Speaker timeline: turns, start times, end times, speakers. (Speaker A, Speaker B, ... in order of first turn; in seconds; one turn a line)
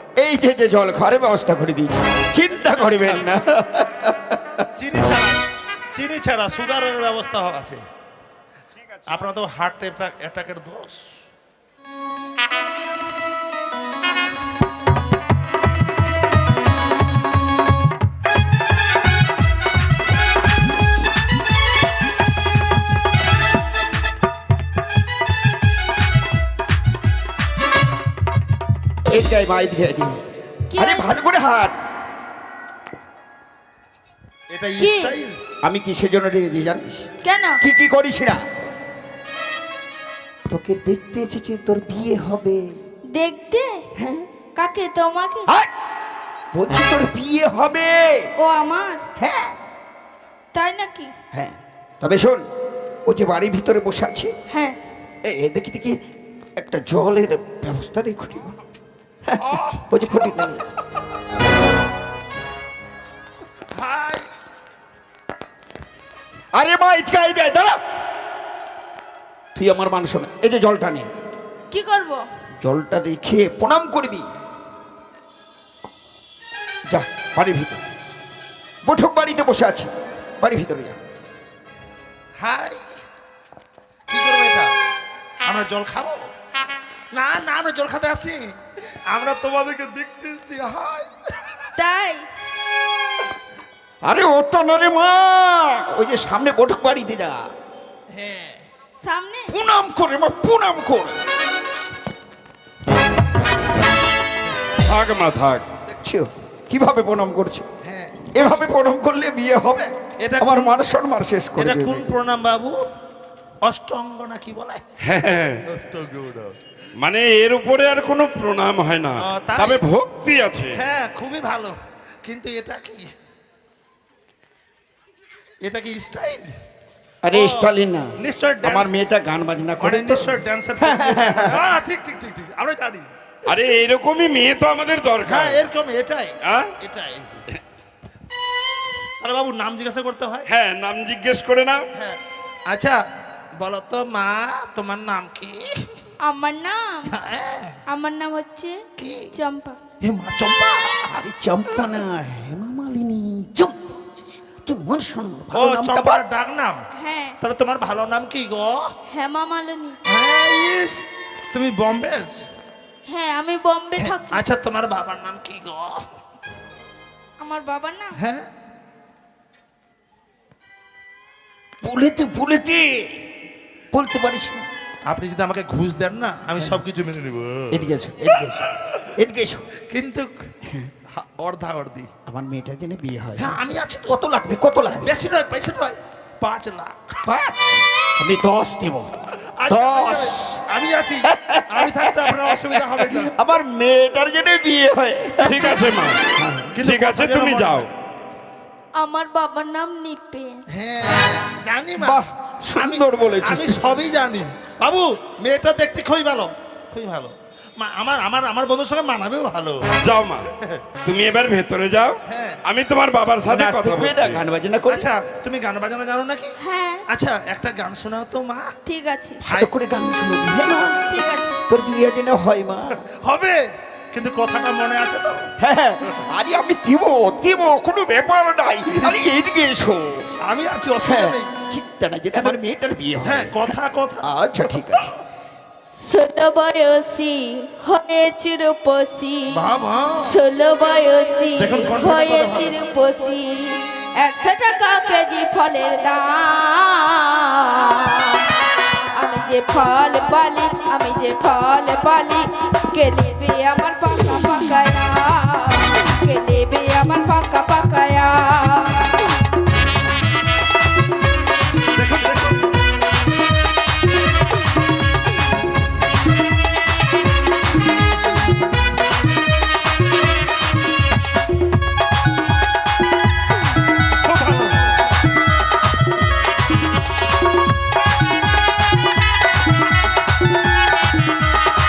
Speaker A: 0.2-4.6
Speaker B: 2.5-3.2
Speaker B: 4.8-5.4
Speaker B: 5.9-7.8
Speaker C: 8.9-9.3
Speaker B: 9.1-11.1
Speaker A: 29.1-30.2
Speaker D: 30.7-31.2
Speaker A: 30.7-31.7
Speaker B: 34.5-35.4
Speaker D: 34.8-35.2
Speaker A: 35.6-37.1
Speaker D: 37.2-37.6
Speaker A: 37.6-38.4
Speaker A: 40.5-42.7
Speaker D: 43.1-43.8
Speaker A: 43.9-44.3
Speaker D: 44.6-45.5
Speaker A: 46.5-48.3
Speaker D: 48.4-49.0
Speaker A: 49.2-49.6
Speaker D: 50.5-51.1
Speaker A: 51.3-52.4
Speaker A: 53.0-54.3
Speaker D: 54.5-54.8
Speaker A: 55.2-56.0
Speaker A: 56.6-58.5
Speaker A: 59.2-60.7
Speaker B: 59.5-59.8
Speaker B: 63.8-64.3
Speaker A: 66.5-67.8
Speaker A: 69.5-71.1
Speaker D: 71.7-72.2
Speaker A: 72.6-74.3
Speaker A: 76.9-77.8
Speaker A: 78.8-81.0
Speaker B: 82.4-82.8
Speaker B: 84.1-84.7
Speaker B: 85.4-86.3
Speaker B: 87.1-88.5
Speaker B: 89.1-91.1
Speaker D: 91.8-92.2
Speaker A: 94.0-97.5
Speaker B: 98.1-98.6
Speaker D: 99.0-99.5
Speaker A: 99.5-101.2
Speaker C: 104.8-105.6
Speaker A: 105.9-107.7
Speaker B: 107.8-108.4
Speaker A: 108.3-112.1
Speaker B: 110.2-110.7
Speaker B: 111.6-112.8
Speaker B: 113.7-114.8
Speaker C: 115.0-115.6
Speaker B: 115.7-116.6
Speaker C: 117.0-120.8
Speaker B: 119.2-119.8
Speaker B: 120.8-123.0
Speaker B: 125.6-126.5
Speaker A: 127.2-128.1
Speaker B: 127.3-128.9
Speaker A: 128.6-131.6
Speaker B: 129.8-133.1
Speaker C: 133.4-135.6
Speaker B: 135.3-137.4
Speaker C: 136.4-136.7
Speaker B: 139.2-140.5
Speaker C: 140.5-141.8
Speaker B: 142.7-143.0
Speaker B: 143.6-145.9
Speaker D: 146.2-147.1
Speaker B: 147.1-147.7
Speaker D: 147.9-148.8
Speaker B: 149.0-149.3
Speaker D: 149.3-149.8
Speaker B: 150.0-151.1
Speaker A: 151.1-154.0
Speaker A: 154.7-156.2
Speaker B: 155.5-156.8
Speaker D: 156.9-157.4
Speaker B: 157.4-158.9
Speaker D: 159.1-160.0
Speaker B: 160.1-162.4
Speaker D: 163.1-164.4
Speaker B: 164.0-166.1
Speaker D: 167.4-168.2
Speaker B: 168.2-168.5
Speaker A: 171.8-173.2
Speaker A: 173.9-174.7
Speaker B: 175.1-177.8
Speaker A: 177.7-179.6
Speaker B: 179.9-180.3
Speaker A: 180.7-180.9
Speaker B: 181.1-182.1
Speaker A: 182.3-183.6
Speaker B: 183.4-184.2
Speaker A: 184.1-185.1
Speaker B: 185.0-187.2
Speaker A: 187.2-189.2
Speaker B: 189.6-193.3
Speaker A: 189.7-190.6
Speaker A: 191.3-195.8
Speaker C: 195.4-196.2
Speaker A: 196.4-196.7
Speaker B: 196.7-197.8
Speaker C: 196.8-197.9
Speaker D: 198.9-200.6
Speaker B: 200.7-202.2
Speaker A: 202.0-203.9
Speaker B: 202.8-209.8
Speaker C: 210.0-210.5
Speaker C: 211.1-214.4
Speaker B: 212.3-212.6
Speaker A: 213.4-215.1
Speaker B: 214.9-216.6
Speaker D: 216.6-217.1
Speaker B: 217.1-218.7
Speaker D: 218.8-219.4
Speaker A: 219.4-220.9
Speaker D: 221.1-221.6
Speaker A: 221.7-223.0
Speaker B: 223.1-225.4
Speaker A: 225.6-230.3
Speaker B: 230.4-231.5
Speaker A: 231.0-233.7
Speaker B: 233.2-234.3
Speaker A: 234.2-235.1
Speaker D: 236.0-239.6
Speaker B: 239.5-240.3
Speaker D: 240.2-248.4
Speaker B: 241.6-242.8
Speaker D: 249.2-259.2
Speaker B: 262.0-262.6
Speaker B: 274.2-274.9